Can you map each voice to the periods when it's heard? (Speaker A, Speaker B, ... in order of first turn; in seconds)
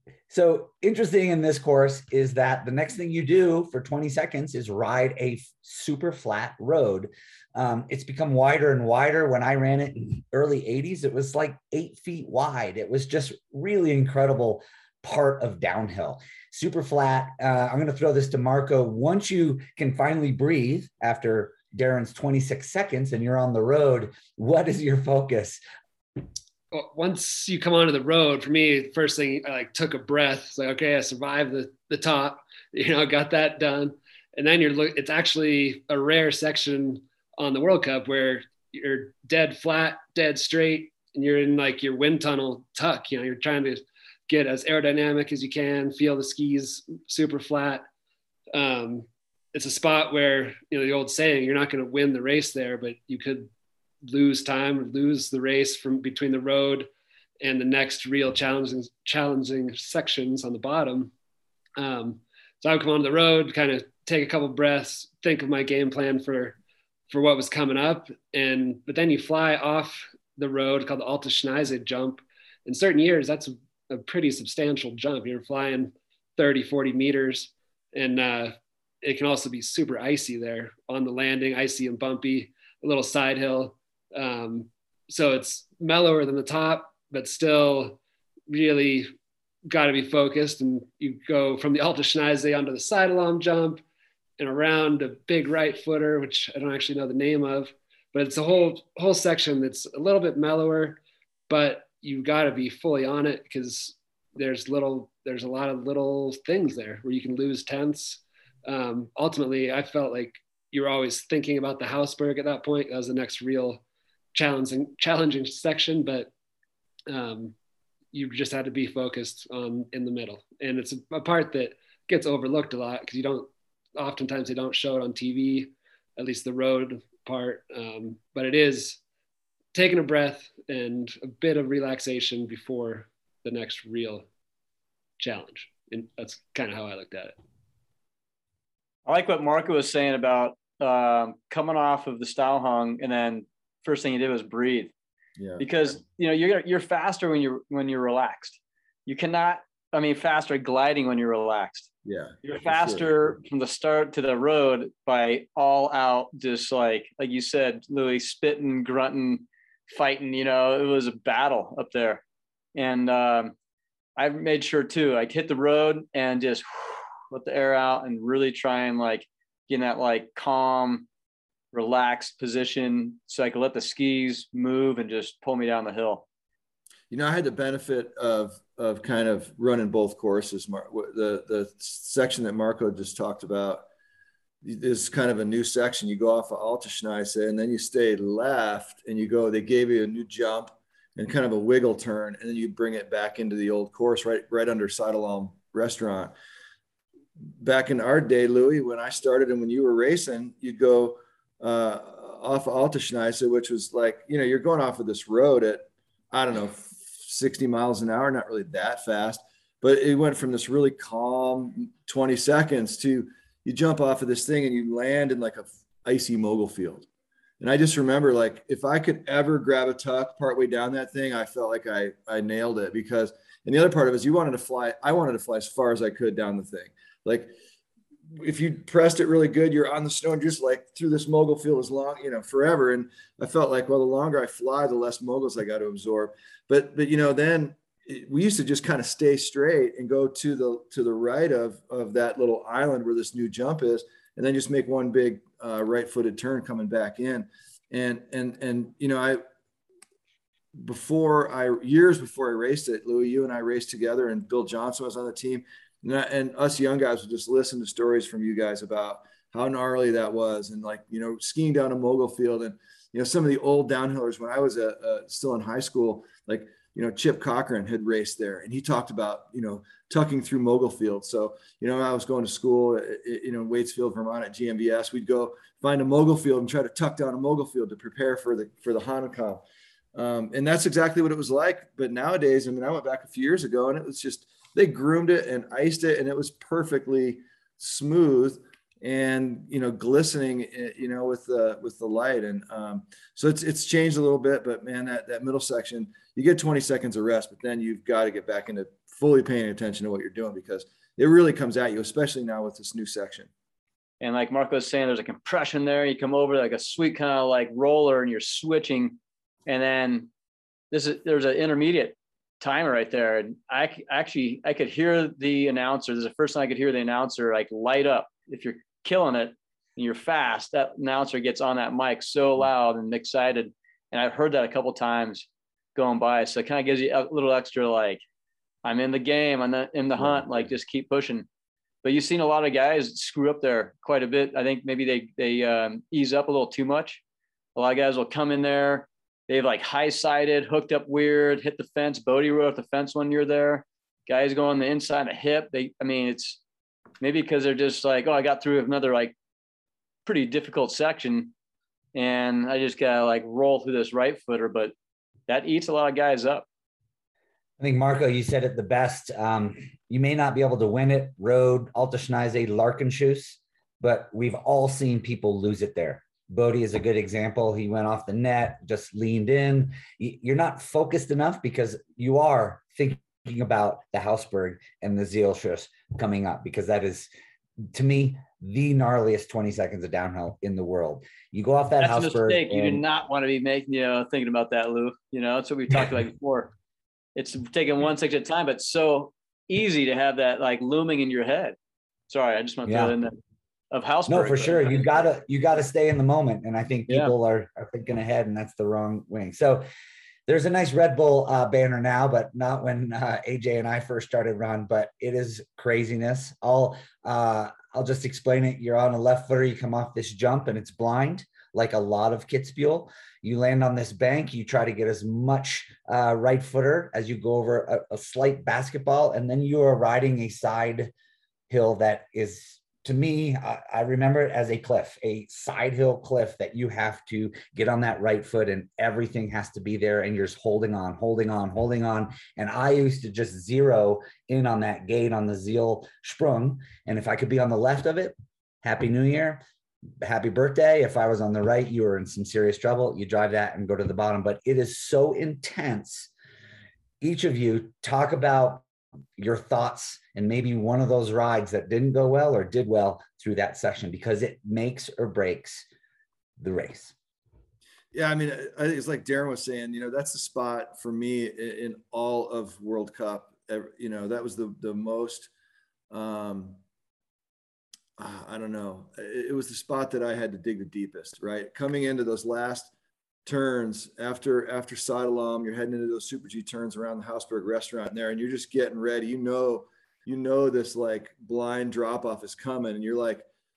Speaker A: 0.3-25.6, 357.8-377.3, 377.9-383.0, 392.9-393.1, 394.3-399.9, 400.5-421.1, 421.7-439.6, 440.2-446.3, 447.2-448.9, 449.4-455.9, 456.6-457.1
Speaker B: 26.7-47.9, 48.5-53.5, 54.0-56.9, 57.4-61.1, 61.8-66.6, 67.1-88.0, 88.5-89.1, 89.7-93.8, 94.4-113.8, 114.3-116.3, 117.1-117.5, 118.1-129.0, 129.7-134.2, 135.2-137.4
Speaker C: 139.1-144.9, 145.6-151.9, 152.4-162.2, 162.7-163.5, 164.2-171.1, 171.7-176.2, 304.2-310.3, 310.9-328.2, 328.9-331.5, 332.0-337.2, 337.7-346.6, 347.2-349.4, 350.2-351.5, 352.1-354.9, 355.5-356.6, 382.0-386.7, 387.4-391.8, 392.3-393.4, 393.9-395.1, 397.1-397.3
Speaker D: 145.4-145.7, 152.0-153.4, 177.1-183.9, 184.6-196.3, 197.6-217.1, 217.6-227.5, 228.3-249.4, 250.7-279.6, 280.1-303.5, 330.2-330.4, 458.1-465.5, 466.1-466.8, 468.2-472.9, 473.4-483.5